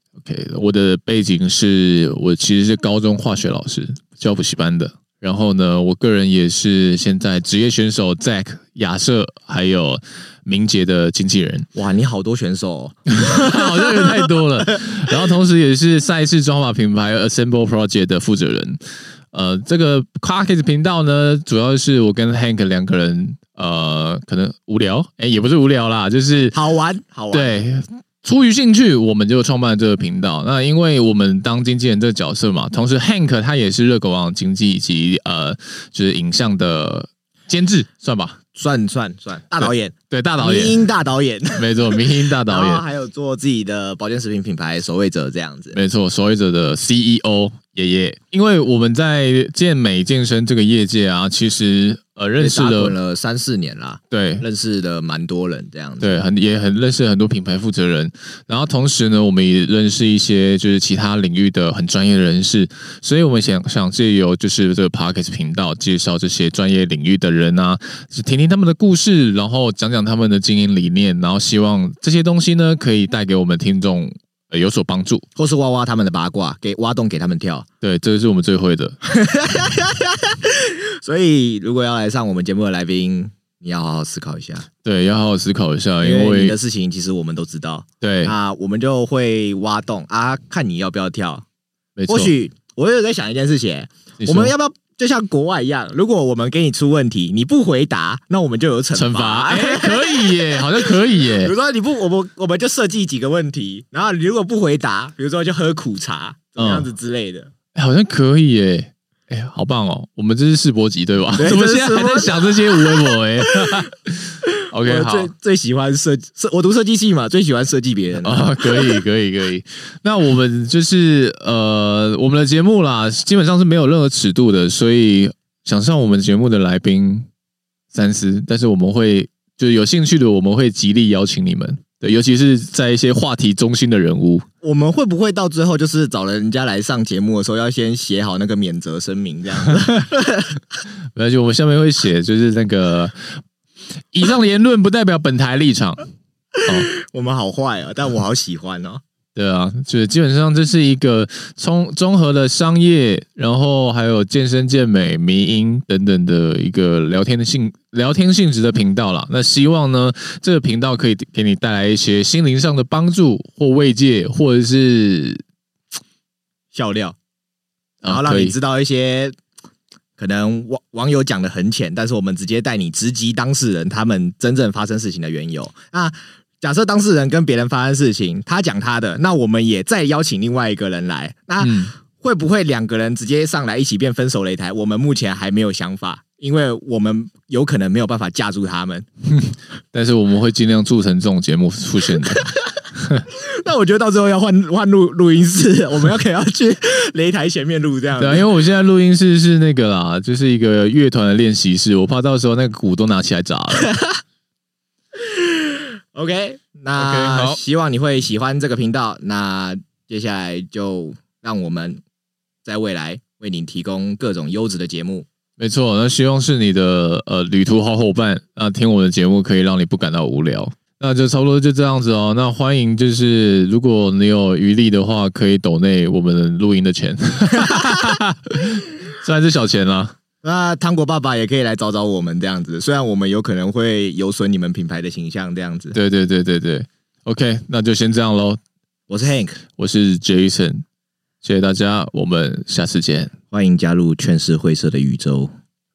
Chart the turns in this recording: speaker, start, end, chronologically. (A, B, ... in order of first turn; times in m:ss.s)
0:00.2-0:11.7 A
0:11.8-0:14.2 B
0:13.1-0:18.8 A
0:19.3-0:26.6 A
0:26.5-0:27.5 B
0:27.3-0:38.4 A
0:38.6-0:41.7 B
0:39.6-0:40.8 A
0:41.6-0:42.8 A
0:42.4-0:45.8 B
0:45.7-0:52.9 A
0:52.4-0:56.2 B
0:54.1-0:54.4 A
0:56.0-1:15.3 A
1:15.4-1:17.7 B
1:17.8-1:19.0 A
1:19.0-1:24.7 B
1:24.8-1:26.6 A
1:26.0-1:31.4 B
1:28.0-1:28.4 A
1:32.0-1:32.3 A
1:32.1-1:47.5 B
1:34.2-1:34.5 A
1:39.0-1:41.5 A
1:46.6-1:46.9 A
1:47.8-1:55.3 A
1:51.4-1:53.8 B
1:54.8-1:59.0 B
1:58.2-2:07.3 A
2:07.9-2:14.5 A
2:14.6-2:20.6 B
2:21.2-2:23.4 A
2:24.1-2:26.0 A
2:26.6-2:29.0 B
2:29.4-2:45.4 A
2:46.7-2:47.2 B
2:48.0-2:48.6 A
2:48.1-2:49.4 B
2:50.2-3:09.1 B
3:01.6-3:01.9 A
3:09.3-3:12.4 A
3:13.3-3:18.5 B
3:18.2-3:23.9 A
3:23.8-3:24.1 B
3:25.2-3:32.0 B
3:27.0-3:27.6 A
3:32.6-3:35.3 B
3:35.6-3:50.1 A
3:47.6-3:48.0 B
3:50.4-3:56.0 B
3:55.9-3:58.6 A
3:59.1-3:59.6 B
3:59.8-4:00.8 A
4:01.4-4:03.3 A
4:03.5-4:05.5 B